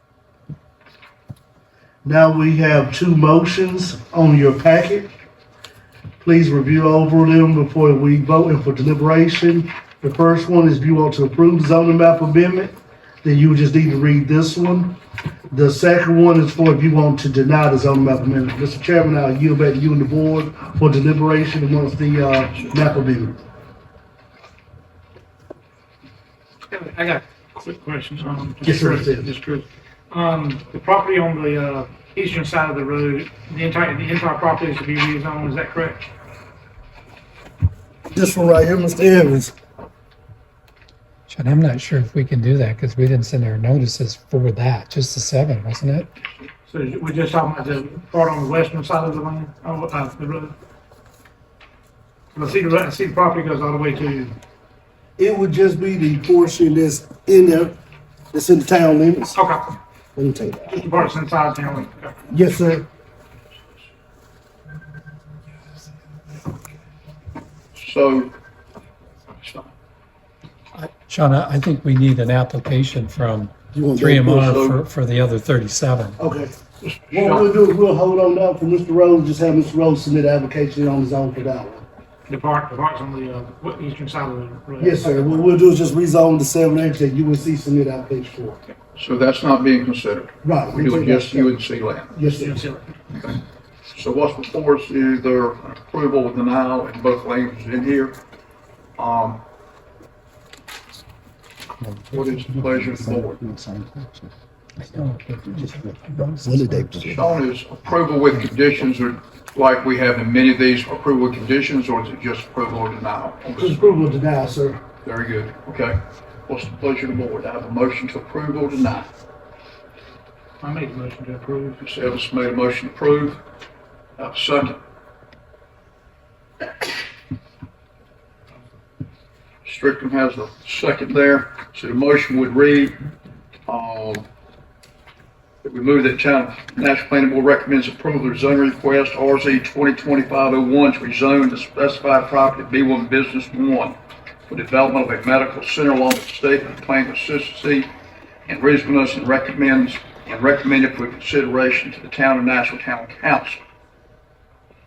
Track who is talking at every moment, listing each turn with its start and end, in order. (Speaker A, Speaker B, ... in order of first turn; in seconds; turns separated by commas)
Speaker A: 2.0-5.1, Speaker A: 6.2-15.0, Speaker A: 15.5-23.4, Speaker B: 26.7-36.0, Speaker A: 28.6-29.3, Speaker A: 38.1-39.5, Speaker C: 41.3-46.1, Speaker B: 46.7-50.5, Speaker B: 52.3-54.3, Speaker A: 55.2-57.8, Speaker A: 58.3-59.4, Speaker B: 59.3-59.6, Speaker A: 60.1-60.8, Speaker B: 60.6-62.1, Speaker A: 62.3-62.9, Speaker D: 67.7-68.3, Speaker D: 69.3-69.7, Speaker C: 70.7-76.2, Speaker A: 73.7-74.6, Speaker D: 74.5-74.8, Speaker A: 76.2-76.5, Speaker D: 76.8-77.5, Speaker A: 77.1-81.8, Speaker B: 82.3-85.5, Speaker A: 84.8-88.6, Speaker D: 89.0-92.2, Speaker A: 90.4-91.6, Speaker A: 92.1-92.6, Speaker B: 92.3-92.9, Speaker D: 93.1-93.4, Speaker D: 93.9-98.2, Speaker D: 99.0-99.4, Speaker D: 102.1-103.4, Speaker A: 102.5-104.3, Speaker C: 104.9-107.2, Speaker A: 104.9-107.3, Speaker D: 107.1-113.8, Speaker A: 113.6-114.8, Speaker D: 115.0-119.1, Speaker B: 120.6-121.8, Speaker D: 121.8-123.4, Speaker D: 124.2-124.8, Speaker D: 129.6-132.9, Speaker D: 133.7-134.2, Speaker D: 135.6-144.0, Speaker D: 144.5-147.9, Speaker D: 148.5-153.6